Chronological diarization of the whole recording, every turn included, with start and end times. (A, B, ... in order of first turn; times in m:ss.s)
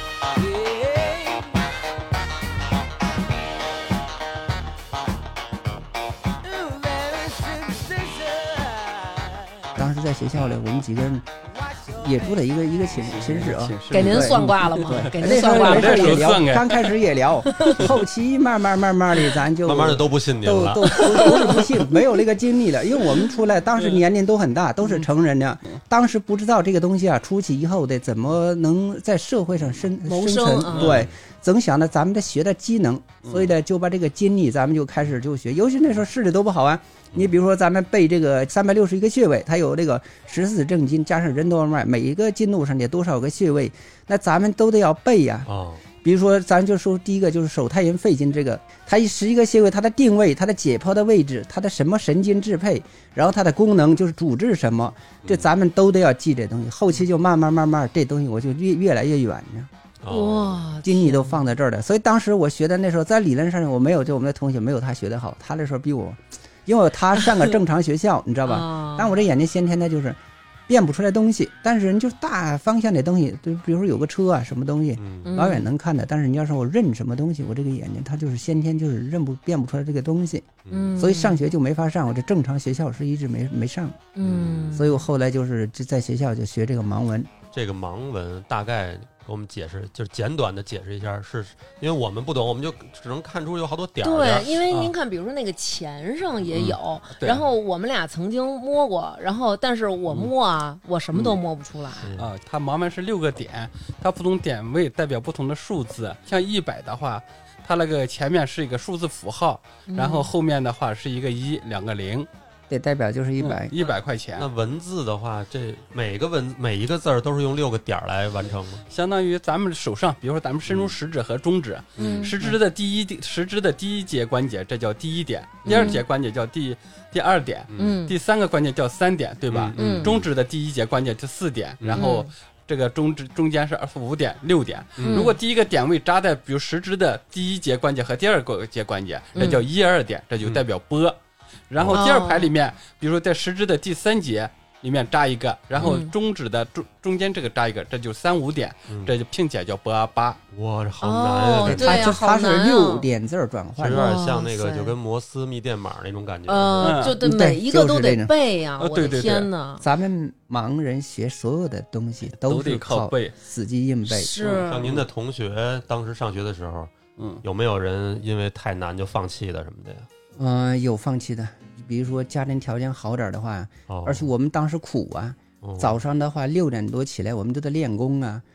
0:00.3-0:01.6 A
0:06.4-0:09.7 A
0:09.8-0:11.3 B
0:11.4-0:12.4 A
0:12.0-0:45.5 B
0:13.0-0:16.8 C
0:13.9-0:16.4 D
0:17.6-0:17.8 D
0:19.6-0:21.1 E
0:21.0-0:21.6 D
0:30.0-0:31.0 D
0:30.8-0:31.1 E
0:33.2-0:33.5 C
0:45.4-0:45.8 E
0:46.0-0:59.7 B
0:55.2-0:55.5 E
1:00.0-1:00.6 E
1:00.1-1:01.5 D
1:00.8-1:24.1 B
1:08.4-1:09.2 D
1:15.0-1:15.3 E
1:15.2-1:15.7 D
1:20.7-1:20.9 E
1:20.7-1:21.4 D
1:24.1-1:25.0 D
1:24.2-1:24.8 E
1:24.7-1:27.3 B
1:27.5-1:34.9 E
1:34.0-1:42.1 D
1:37.2-1:37.4 C
1:42.0-1:42.3 E
1:42.2-1:52.3 C
1:49.9-1:50.3 D
1:52.7-1:53.7 B
1:53.4-1:54.5 C
1:54.4-1:58.8 E
1:58.9-2:21.2 C
2:00.7-2:00.9 E
2:02.0-2:02.3 D
2:02.0-2:02.6 E
2:05.6-2:06.0 E
2:05.6-2:06.0 D
2:07.7-2:08.0 E
2:07.8-2:08.1 D
2:09.5-2:10.3 E
2:09.8-2:10.1 D
2:11.8-2:12.1 E
2:12.0-2:12.3 D
2:15.0-2:15.3 E
2:15.0-2:15.4 D
2:19.4-2:19.6 D
2:21.7-2:30.4 C
2:21.8-2:22.0 E
2:21.9-2:22.5 D
2:25.8-2:26.1 D
2:30.5-2:32.2 E
2:31.0-2:33.1 D
2:31.6-2:34.1 B
2:33.8-2:37.0 E
2:33.9-2:34.9 D
2:36.5-2:39.8 D
2:36.8-2:37.2 C
2:37.2-2:38.3 B
2:38.8-2:39.5 C
2:39.8-2:44.4 B
2:42.3-2:43.3 C
2:44.1-2:44.9 D
2:44.4-2:45.0 C
2:44.6-2:46.9 E
2:47.2-2:47.4 C
2:47.4-2:50.1 E
2:50.4-2:58.4 B
2:53.9-2:54.3 E
2:55.6-2:56.0 E